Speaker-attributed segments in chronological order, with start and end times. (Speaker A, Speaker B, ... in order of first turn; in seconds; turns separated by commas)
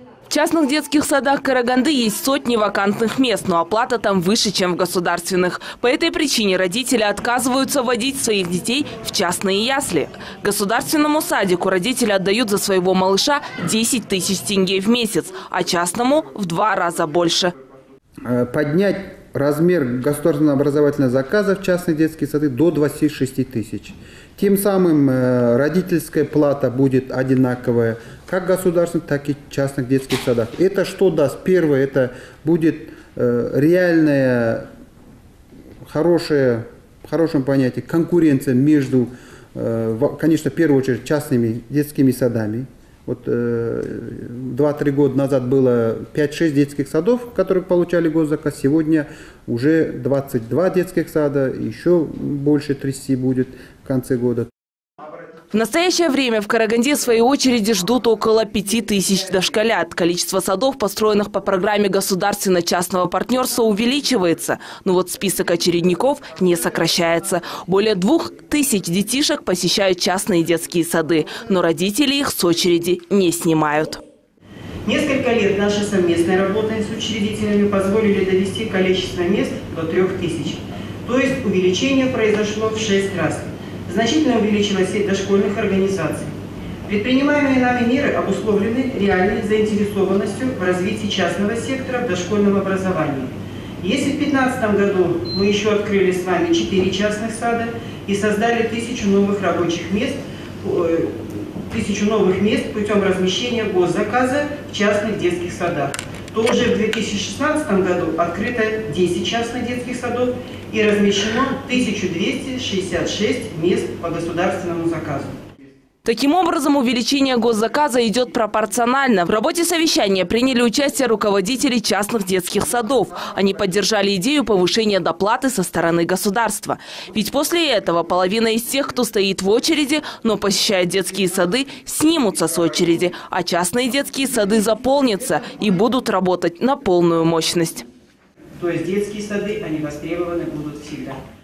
Speaker A: 0.3-17.5, Speaker B: 18.2-34.7, Speaker B: 35.8-54.5, Speaker A: 55.5-74.0, Speaker C: 74.8-86.3, Speaker C: 86.8-115.4, Speaker A: 116.0-137.8, Speaker C: 138.6-141.2